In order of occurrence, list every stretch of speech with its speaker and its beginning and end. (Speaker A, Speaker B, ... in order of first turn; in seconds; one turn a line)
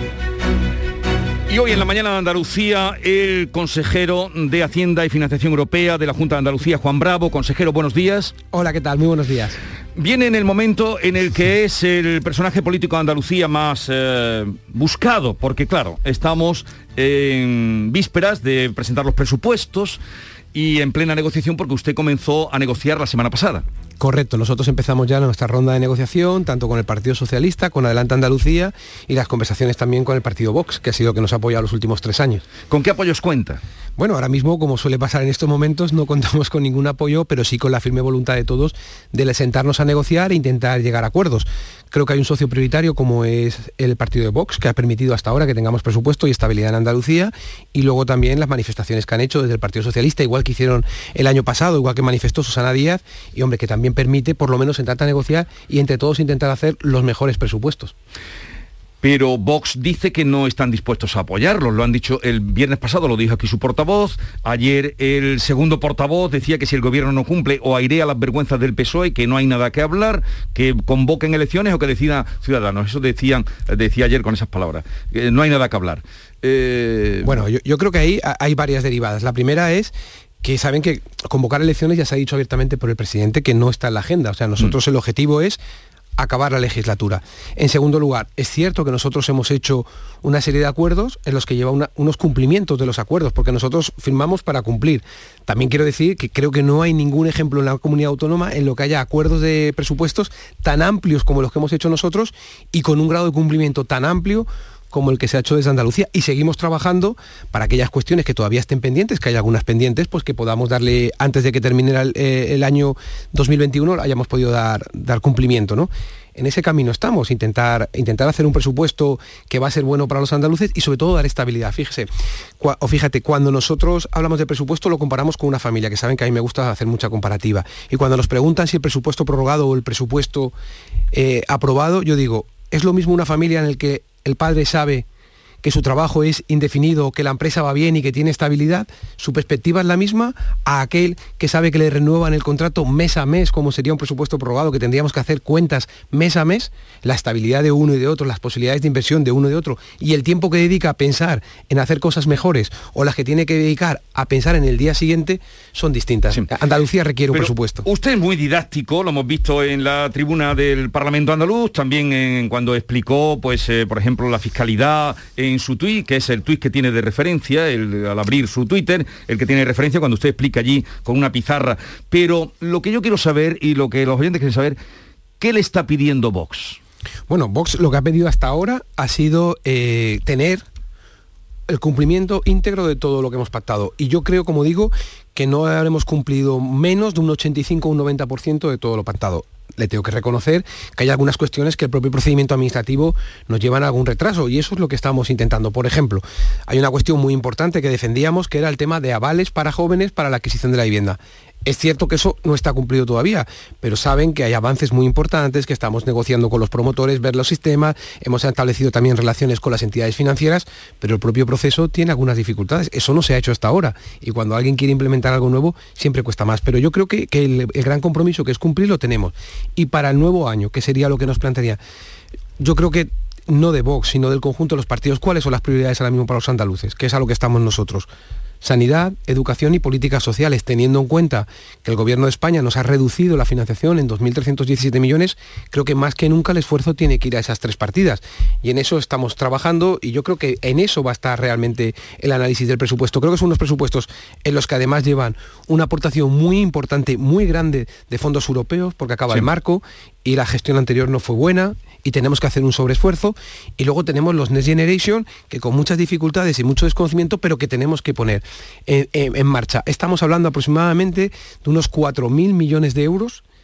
Speaker A: 1.5-8.3
Speaker B: 8.5-9.6
Speaker A: 9.9-20.0
Speaker A: 20.5-23.6
Speaker B: 24.0-32.4
Speaker A: 32.7-33.6
Speaker B: 34.0-57.9
Speaker A: 59.0-77.4
Speaker B: 77.2-85.6
Speaker B: 86.2-130.5
Speaker B: 131.1-135.1
Speaker B: 135.6-157.8
Speaker A: 157.3-174.8
Speaker A: 175.4-176.8
Speaker B: 177.3-180.6
Speaker B: 181.7-221.8
Speaker B: 222.6-228.1
Speaker B: 228.6-263.4